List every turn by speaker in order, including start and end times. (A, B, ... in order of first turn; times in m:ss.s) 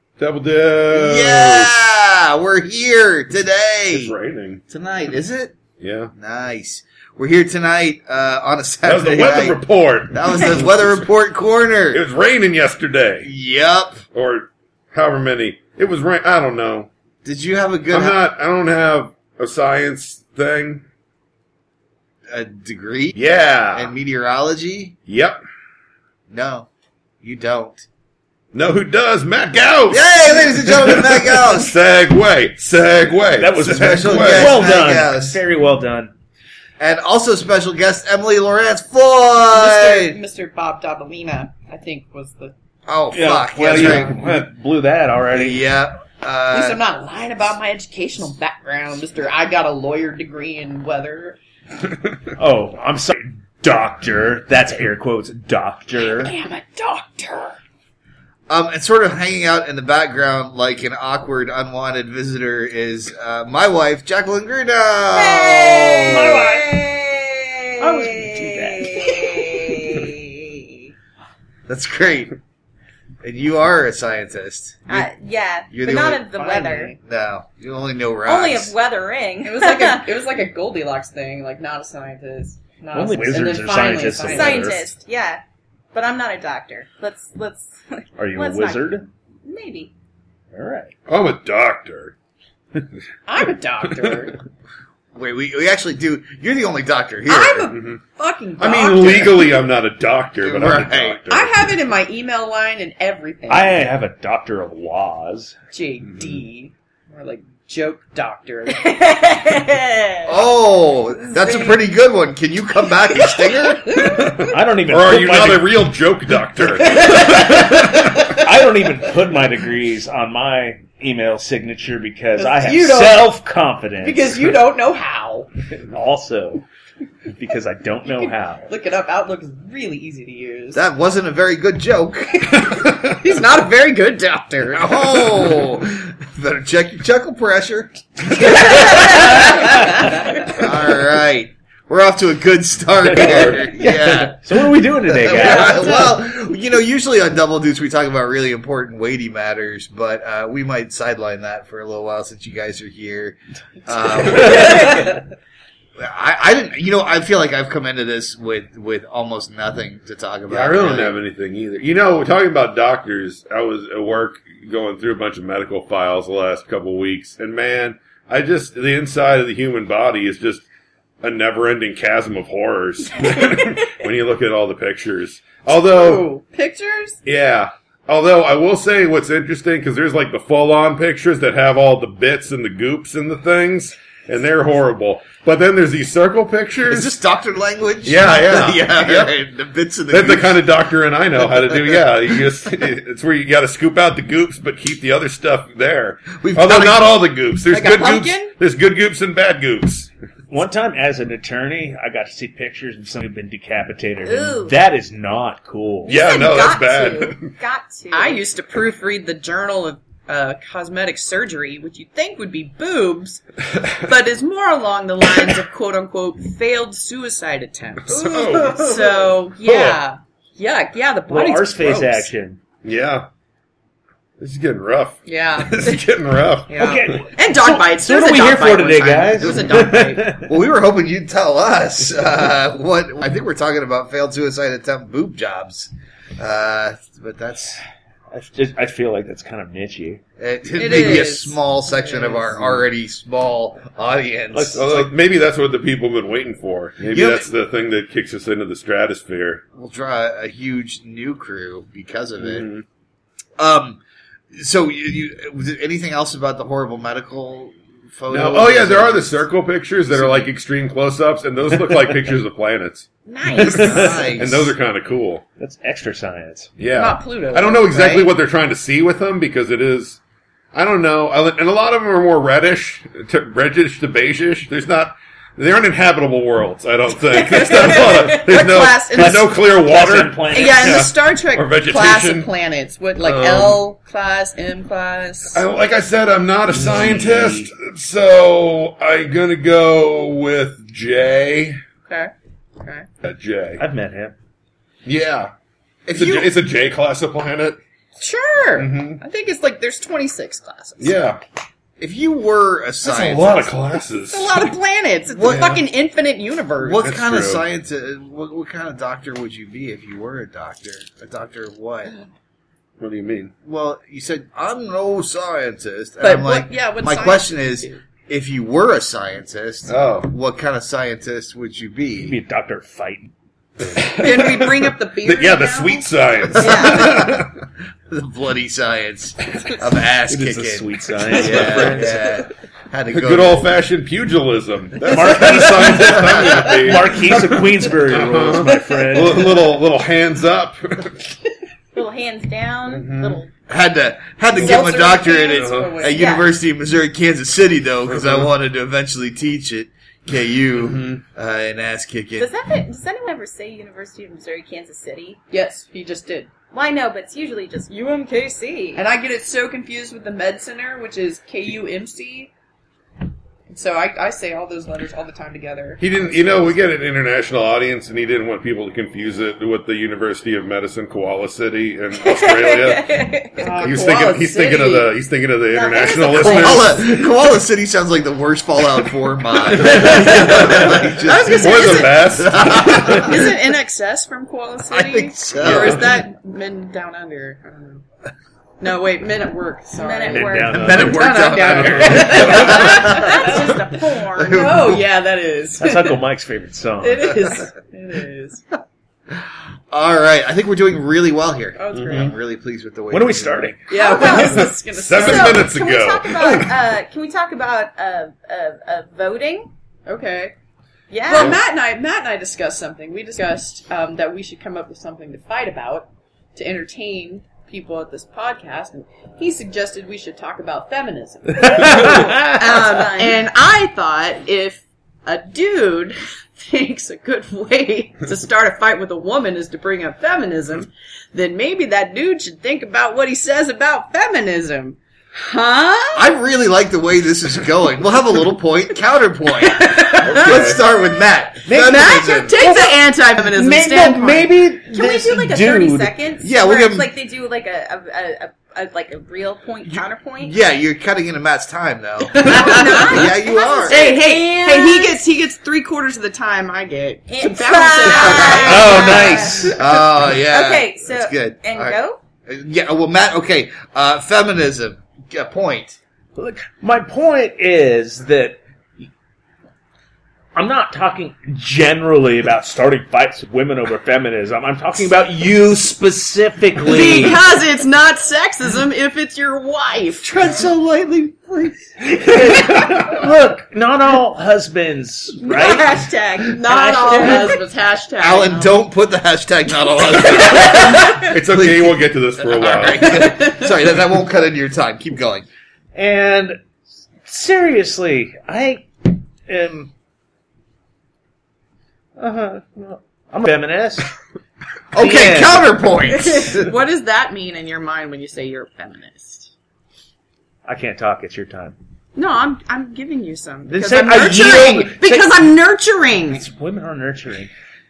0:00.2-0:01.8 A
0:00.9-0:04.1 B
0:03.9-0:04.6 A
0:04.7-0:05.6 B
0:05.8-0:06.1 A
0:06.2-0:12.0 B
0:08.8-0:11.1 A
0:11.9-0:13.3 A
0:13.2-0:14.0 B
0:14.1-0:16.9 A
0:17.2-0:18.2 B
0:17.9-0:20.8 A
0:22.3-0:23.2 B
0:23.2-0:23.9 A
0:23.7-0:25.0 B
0:25.1-0:25.4 A
0:26.3-0:26.7 B
0:27.2-0:27.8 B
0:28.5-0:34.7 A
0:29.9-0:31.8 B
0:33.4-0:36.1 C
0:33.6-0:35.4 B
0:36.8-0:40.2 B
0:39.4-0:42.5 D
0:42.9-0:44.2 B
0:43.1-0:45.6 C
0:43.8-0:44.0 A
0:43.8-0:44.1 D
0:45.3-0:46.8 B
0:46.5-0:51.4 D
0:52.4-0:56.3 C
0:56.0-0:57.6 D
0:58.5-1:06.5 B
1:05.1-1:10.7 E
1:06.1-1:06.8 C
1:07.8-1:09.7 C
1:11.7-1:12.4 B
1:13.2-1:15.1 B
1:14.9-1:17.0 E
1:15.7-1:16.5 B
1:16.3-1:17.0 D
1:17.0-1:18.7 B
1:18.3-1:20.0 E
1:19.4-1:24.8 D
1:22.9-1:24.9 C
1:24.2-1:25.4 E
1:25.9-1:29.9 E
1:28.2-1:29.1 C
1:30.5-1:30.9 C
1:31.1-1:32.1 A
1:33.3-1:34.4 D
1:35.2-1:37.7 B
1:37.3-1:39.6 D
1:37.7-1:38.0 A
1:38.6-1:41.7 A
1:39.1-1:39.4 B
1:40.4-1:41.2 B
1:41.3-1:43.8 D
1:43.5-1:45.6 C
1:45.7-1:48.9 D
1:46.1-1:46.4 A
1:48.7-1:50.4 E
1:50.3-1:54.1 B
1:53.9-1:54.3 D
1:54.4-1:55.9 C
1:54.9-1:58.3 A
1:56.7-2:04.5 C
2:02.4-2:03.4 D
2:04.0-2:05.5 D
2:05.9-2:06.6 C
2:07.3-2:08.7 C
2:08.0-2:10.8 D
2:10.7-2:12.5 B
2:12.8-2:15.2 D
2:14.7-2:35.2 B
2:18.5-2:19.5 D
2:23.0-2:25.9 C
2:25.3-2:26.2 D
2:34.4-2:34.8 C
2:36.0-2:41.2 B
2:40.5-2:50.6 A
2:51.2-2:56.3 A
2:55.7-2:57.2 D
2:57.2-3:07.1 A
3:06.9-3:10.6 B
3:08.0-3:09.3 A
3:10.1-3:20.1 A
3:11.7-3:12.0 B
3:16.4-3:17.2 B
3:17.7-3:18.6 D
3:20.5-3:26.2 C
3:24.2-3:24.8 E
3:26.1-3:27.6 A
3:26.1-3:28.4 E
3:28.1-3:33.4 D
3:34.0-3:42.3 D
3:38.1-3:40.0 A
3:41.3-3:42.6 C
3:42.8-3:43.3 A
3:44.4-3:47.2 A
3:45.3-3:46.0 D
3:46.7-3:50.4 D
3:46.8-3:50.5 C
3:49.4-3:49.9 B
3:50.4-3:57.8 B
3:58.3-4:00.2 C
4:00.4-4:04.8 B
4:00.8-4:02.5 D
4:04.5-4:05.1 C
4:04.8-4:09.6 A
4:07.1-4:07.5 B
4:09.8-4:12.7 B
4:12.4-4:12.8 A
4:13.6-4:14.0 B
4:14.5-4:19.4 B
4:18.3-4:25.4 A
4:20.1-4:20.5 B
4:21.9-4:22.3 C
4:23.3-4:24.3 D
4:23.6-4:24.7 B
4:25.6-4:26.7 C
4:26.8-4:30.2 A
4:27.0-4:28.3 D
4:30.7-4:42.5 A
4:37.5-4:39.6 D
4:37.5-4:38.4 E
4:39.1-4:41.1 C
4:40.5-4:45.6 D
4:43.2-4:43.8 A
4:45.5-4:51.8 A
4:46.7-4:47.7 C
4:52.1-4:53.1 D
4:53.2-4:53.8 A
4:53.8-4:54.4 C
4:55.0-4:55.5 A
4:56.1-4:56.5 B
4:56.1-4:57.8 A
4:58.2-5:01.3 D
4:58.8-4:59.2 A
5:01.0-5:01.4 A
5:02.0-5:03.7 B
5:03.0-5:04.7 A
5:04.3-5:07.1 D
5:05.4-5:05.8 B
5:05.4-5:05.8 A
5:06.8-5:12.1 B
5:07.0-5:07.6 A
5:13.0-5:13.5 A
5:13.6-5:22.4 B
5:16.2-5:18.0 D
5:19.9-5:20.3 A
5:22.2-5:23.3 C
5:23.8-5:27.5 A
5:24.2-5:26.1 D
5:26.6-5:27.3 E
5:26.6-5:27.5 B
5:28.1-5:33.7 B
5:30.3-5:32.2 C
5:31.6-5:31.9 A
5:33.1-5:41.2 A
5:35.0-5:39.6 C
5:35.9-5:36.7 B
5:41.9-5:43.5 E
5:42.9-5:43.4 A
5:43.7-5:52.5 B
5:44.5-5:46.2 D
5:45.5-5:46.0 A
5:46.0-5:46.5 E
5:48.1-5:48.5 A
5:50.8-5:51.2 A
5:52.4-5:55.4 E
5:55.5-5:56.5 D
5:56.7-5:59.0 E
5:59.0-6:02.5 D
6:03.7-6:06.0 D
6:06.0-6:13.2 A
6:12.2-6:14.0 E
6:13.6-6:15.1 D
6:13.8-6:17.1 A
6:15.7-6:17.2 E
6:16.4-6:23.5 B
6:19.8-6:23.4 A
6:20.1-6:28.0 D
6:24.9-6:26.1 B
6:25.6-6:26.0 A
6:28.8-6:33.7 D
6:30.0-6:31.1 E
6:30.3-6:32.7 C
6:30.7-6:33.8 B
6:31.6-6:32.9 A
6:32.4-6:34.7 E
6:34.3-6:35.0 B
6:34.4-6:36.2 D
6:35.8-6:37.3 C
6:37.0-6:38.7 D
6:39.9-6:43.7 B
6:41.8-6:42.3 D
6:42.0-6:42.3 A
6:43.1-6:43.8 C
6:43.9-6:45.7 D
6:43.9-6:49.7 E
6:44.4-6:46.7 A
6:50.1-6:50.5 D
6:51.1-6:51.6 E
6:51.3-7:16.3 D
6:51.3-6:51.6 A
7:01.6-7:02.6 C
7:01.8-7:03.4 E
7:16.2-7:22.6 B
7:19.6-7:20.8 D
7:20.3-7:20.8 A
7:21.7-7:26.2 C
7:21.7-7:24.6 D
7:24.9-7:30.6 E
7:26.4-7:27.1 B
7:29.8-7:34.1 B
7:32.4-7:33.3 D
7:32.4-7:35.2 E
7:33.9-7:39.6 D
7:37.3-7:39.8 E
7:38.1-7:46.0 B
7:38.6-7:39.8 C
7:40.4-7:42.2 E
7:46.4-7:49.1 C
7:50.6-7:57.4 C
7:56.8-8:00.3 D
8:00.2-8:02.1 B
8:02.0-8:07.5 C
8:05.4-8:07.6 E
8:06.5-8:08.8 D
8:08.2-8:15.5 B
8:11.2-8:13.3 A
8:13.1-8:13.7 D
8:16.0-8:16.6 C
8:17.2-8:19.9 C
8:22.2-8:24.1 C
8:24.9-8:26.7 B
8:25.0-8:25.8 C
8:26.1-8:29.5 D
8:30.7-8:31.8 C
8:32.2-8:36.5 D
8:33.7-8:35.4 C
8:36.3-8:37.5 C